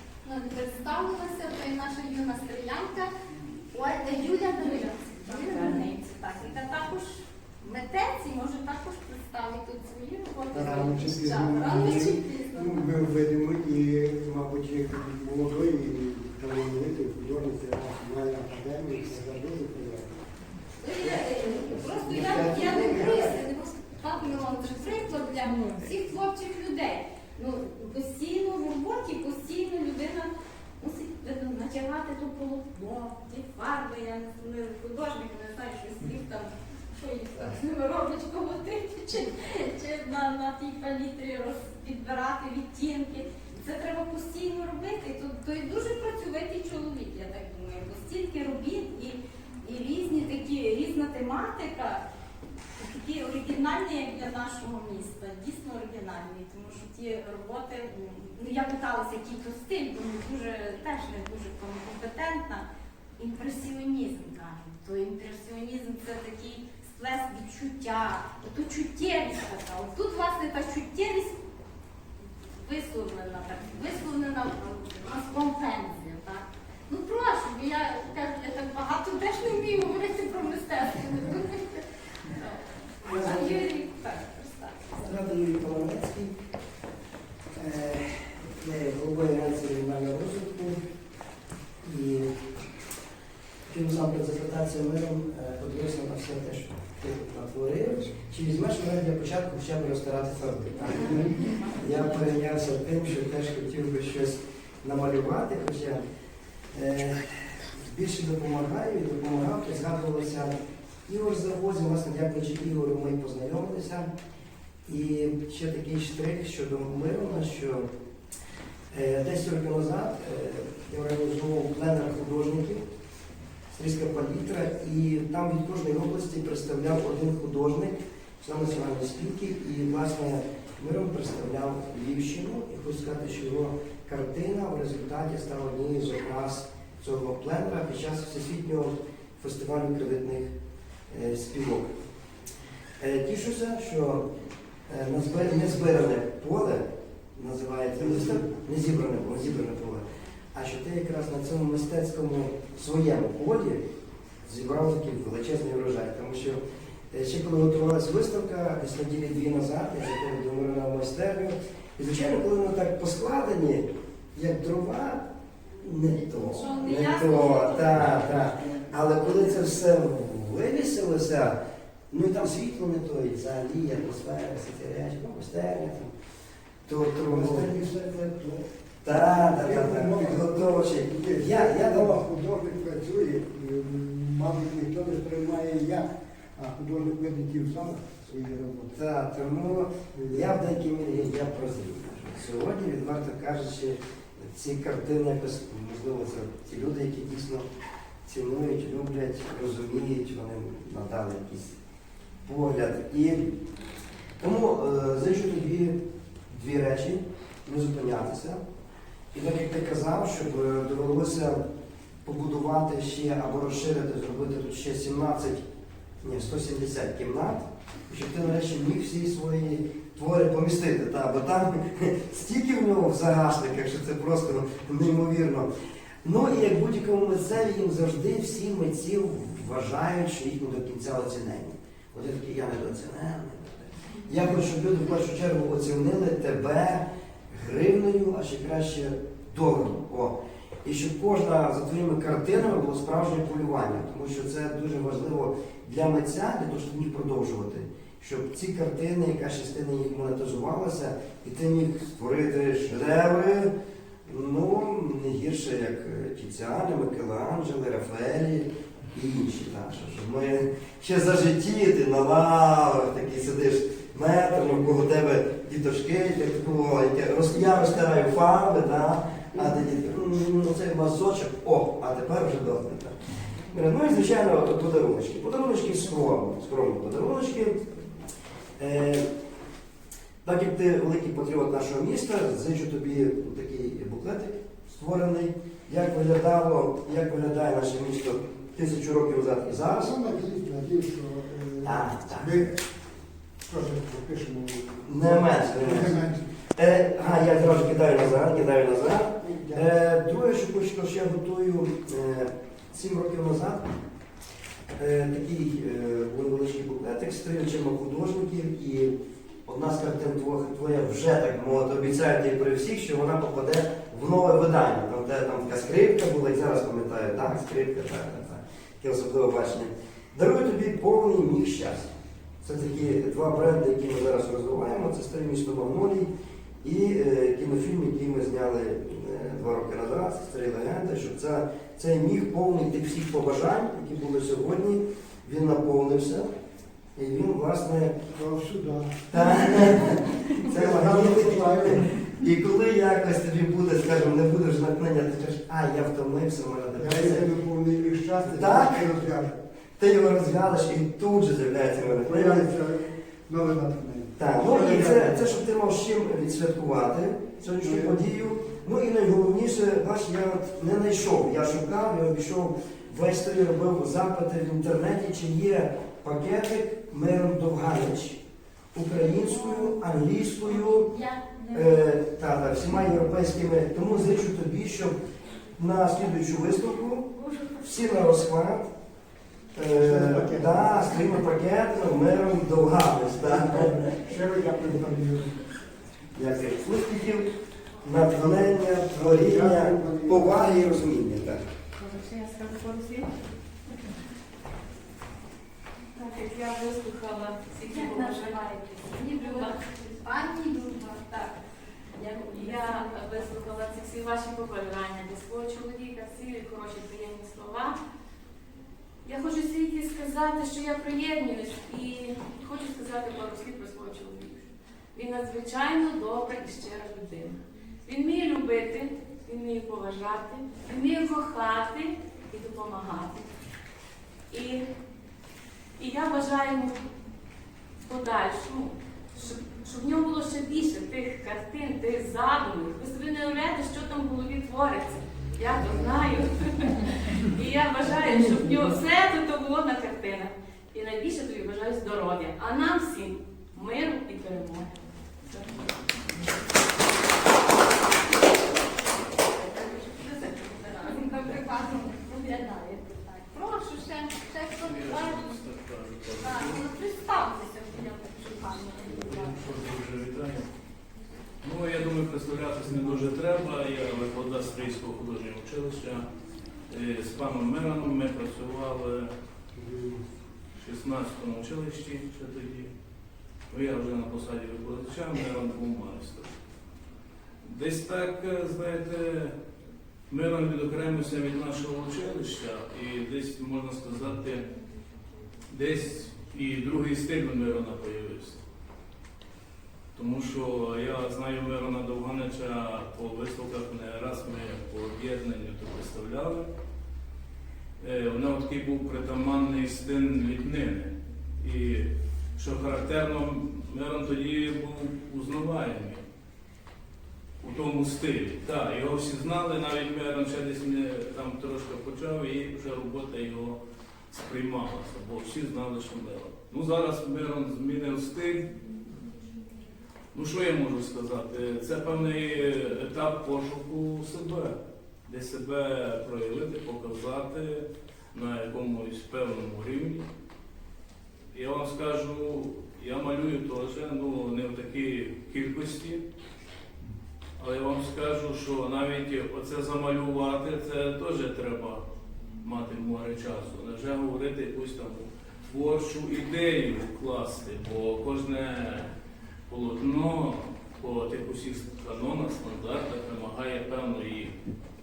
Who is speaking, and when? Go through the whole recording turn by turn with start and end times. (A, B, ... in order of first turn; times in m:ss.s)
0:00.2-0:03.1 A
0:03.7-0:12.9 A
0:05.3-0:05.9 B
0:10.5-0:20.2 C
0:20.8-0:52.0 A
0:21.0-0:23.4 D
0:52.8-1:11.4 A
1:12.5-1:25.1 A
1:23.0-1:23.6 D
1:25.0-1:26.4 D
1:27.6-1:30.8 D
1:31.8-1:32.5 D
1:33.7-1:46.0 D
1:41.2-1:41.8 A
1:46.7-1:50.5 D
1:51.1-1:54.1 D
1:54.9-1:57.9 D
1:58.9-2:02.9 D
2:03.7-2:20.5 D
2:21.1-2:21.9 D
2:23.0-2:24.3 D
2:24.9-2:33.8 D
2:28.0-2:28.6 C
2:34.4-2:45.3 D
2:45.8-2:51.6 D
2:46.2-2:49.5 A
2:52.1-2:56.1 D
2:56.8-2:57.8 D
2:57.2-3:09.0 C
2:59.0-3:02.2 D
3:08.9-3:17.7 D
3:10.1-3:10.6 C
3:18.2-3:21.8 D
3:22.4-3:23.6 D
3:24.4-3:26.0 D
3:26.5-3:28.6 D
3:29.3-3:31.6 D
3:32.2-3:35.6 D
3:36.2-3:45.7 D
3:46.2-4:13.7 D
4:14.3-4:33.2 D
4:33.7-4:37.8 D
4:38.8-4:39.2 D
4:40.4-4:50.1 D
4:49.9-4:52.8 C
4:51.8-4:52.6 D
4:53.6-4:56.4 C
4:55.0-4:56.2 D
4:56.8-5:03.9 D
4:57.3-4:58.7 C
4:59.3-4:59.9 C
5:04.9-5:26.3 D
5:26.8-5:36.5 D
5:37.2-5:38.2 D
5:38.3-5:42.2 C
5:39.3-5:47.5 D
5:47.0-5:49.6 C
5:48.4-5:49.1 D
5:50.0-5:52.7 D
5:52.1-5:55.5 C
5:54.4-6:08.4 D
5:57.8-5:58.3 C
6:08.9-6:11.1 D
6:10.7-6:11.9 A
6:11.7-6:15.2 D
6:15.8-6:18.9 D
6:19.7-6:24.2 D
6:19.9-6:21.0 C
6:23.4-6:25.6 C
6:26.4-6:27.5 D
6:28.0-6:31.6 D
6:28.3-6:30.6 C
6:32.0-6:33.3 B
6:36.2-6:38.7 B
6:37.8-6:41.5 A
6:39.3-6:39.8 B
6:42.2-6:43.6 A
6:42.5-6:48.0 B
6:49.2-7:03.5 B
7:04.5-7:04.9 B
7:06.0-7:07.1 B
7:08.0-7:24.9 B
7:25.4-7:25.8 B
7:29.6-7:35.6 A
7:34.8-7:36.9 E
7:36.4-7:39.6 A
7:39.1-7:40.7 E
7:41.6-7:46.3 E
7:46.9-7:49.3 E
7:49.8-7:50.3 C
7:50.8-7:52.9 E
7:53.7-7:56.5 E
7:57.6-7:59.6 E
8:00.3-8:04.7 E
8:05.7-8:08.6 E
8:10.2-8:16.7 E
8:18.0-8:26.2 E
8:27.6-8:33.8 E
8:34.3-8:38.9 E
8:40.3-8:50.3 E
8:51.5-8:56.2 E
8:57.6-9:02.0 E
9:02.6-9:09.1 E
9:09.7-9:14.5 E